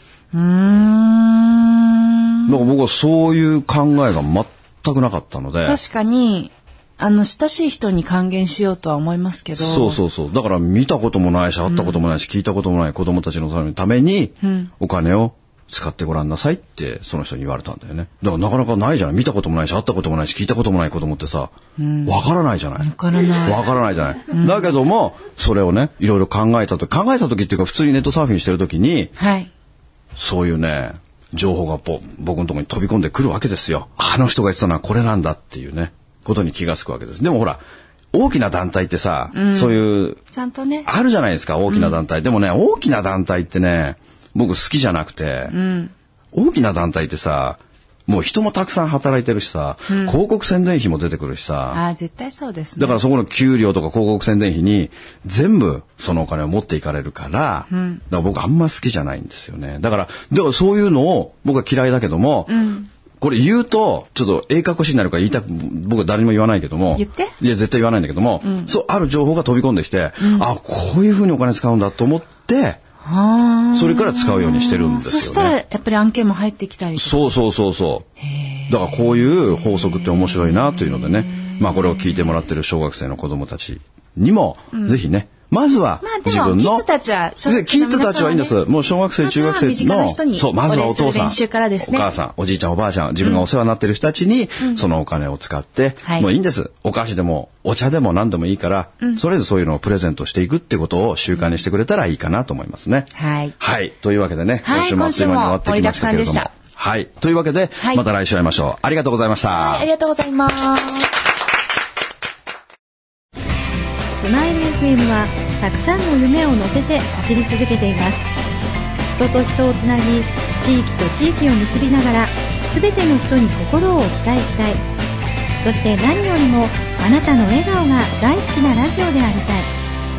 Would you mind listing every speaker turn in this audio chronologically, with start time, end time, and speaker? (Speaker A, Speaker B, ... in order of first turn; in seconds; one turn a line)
Speaker A: 0.3-2.6
Speaker B: 2.5-5.8
Speaker A: 5.6-10.0
Speaker B: 9.6-21.5
Speaker A: 11.7-12.0
Speaker A: 14.4-14.7
Speaker A: 21.8-22.2
Speaker B: 22.1-29.1
Speaker A: 22.8-23.7
Speaker A: 24.3-24.7
Speaker A: 29.2-29.5
Speaker B: 30.1-37.6
Speaker B: 38.1-40.2
Speaker A: 39.3-40.9
Speaker B: 40.9-45.5
Speaker A: 41.7-42.0
Speaker A: 45.5-45.9
Speaker B: 46.3-51.8
Speaker A: 49.9-50.2
Speaker A: 51.7-53.0
Speaker B: 52.8-62.6
Speaker A: 57.7-58.0
Speaker A: 62.5-62.9
Speaker B: 63.2-72.8
Speaker A: 67.0-67.3
Speaker A: 68.4-68.7
Speaker A: 70.2-70.5
Speaker A: 73.0-77.4
Speaker B: 73.7-75.6
Speaker B: 77.0-78.1
Speaker A: 78.2-82.3
Speaker B: 78.7-86.9
Speaker A: 84.7-85.0
Speaker A: 86.0-88.6
Speaker B: 87.5-109.9
Speaker A: 89.2-92.1
Speaker A: 96.0-96.3
Speaker A: 103.2-103.5
Speaker A: 104.6-106.5
Speaker A: 109.5-111.2
Speaker C: 114.2-118.3
Speaker C: 119.2-124.8
Speaker C: 125.6-129.7